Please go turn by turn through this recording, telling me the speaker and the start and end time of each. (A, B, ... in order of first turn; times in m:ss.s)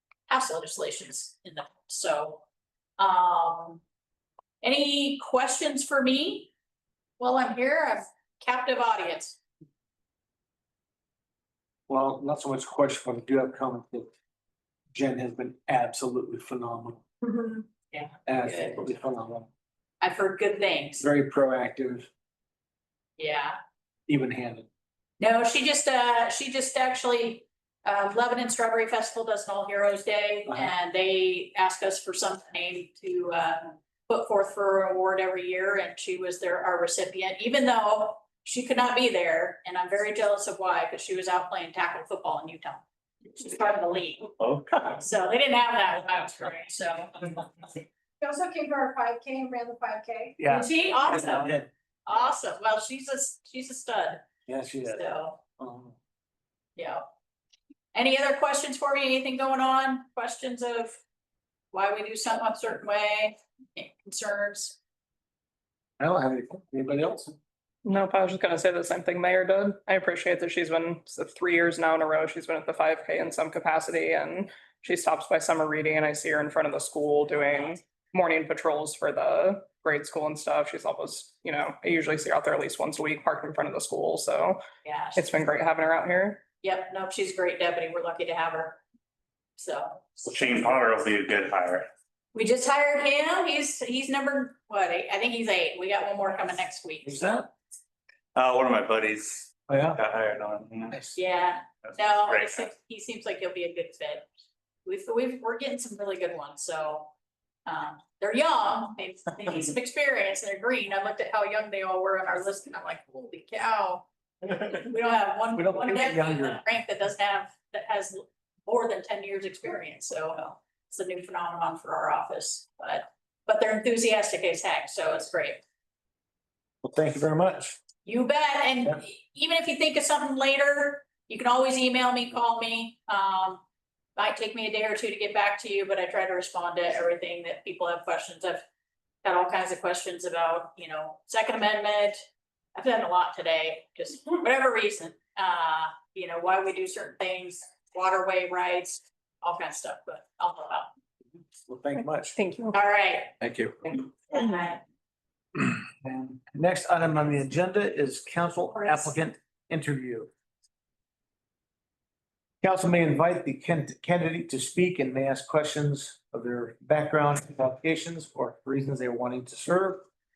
0:00.3-0:02.4 A
0:03.0-0:03.8 A
0:04.6-0:06.5 A
0:07.2-0:09.4 A
0:11.9-0:14.1 B
0:14.9-0:17.0 B
0:17.3-0:18.8 A
0:18.3-0:19.5 B
0:20.0-0:21.1 A
0:21.0-0:22.1 B
0:23.2-0:23.6 A
0:24.1-0:24.7 B
0:25.2-0:44.3 A
0:30.5-0:30.7 B
0:44.4-0:44.9 C
0:44.9-0:47.5 A
0:48.2-0:50.8 D
0:50.4-0:51.7 B
0:50.5-0:51.5 A
0:52.1-0:54.2 A
0:54.5-0:55.0 B
0:54.8-0:55.4 A
0:55.6-0:56.0 B
0:56.8-0:57.0 A
0:57.9-1:01.0 A
1:01.7-1:04.8 A
1:06.0-1:07.4 B
1:07.8-1:24.6 E
1:24.8-1:25.3 A
1:25.2-1:26.4 E
1:26.6-1:28.8 A
1:29.6-1:30.9 A
1:30.4-1:31.8 C
1:32.3-1:37.4 A
1:37.0-1:37.5 B
1:38.4-1:39.5 C
1:39.7-1:40.0 B
1:40.0-1:41.0 C
1:41.1-1:44.3 A
1:44.8-1:47.1 A
1:47.7-2:05.6 A
1:55.6-1:56.6 B
2:06.8-2:07.8 B
2:08.0-2:13.6 A
2:14.2-2:18.6 A
2:19.2-2:30.9 A
2:31.7-2:32.4 B
2:32.0-2:32.8 E
2:32.7-2:33.4 A
2:33.4-2:33.8 B
2:34.3-2:34.8 A
2:35.6-2:40.3 B
2:42.6-2:50.0 B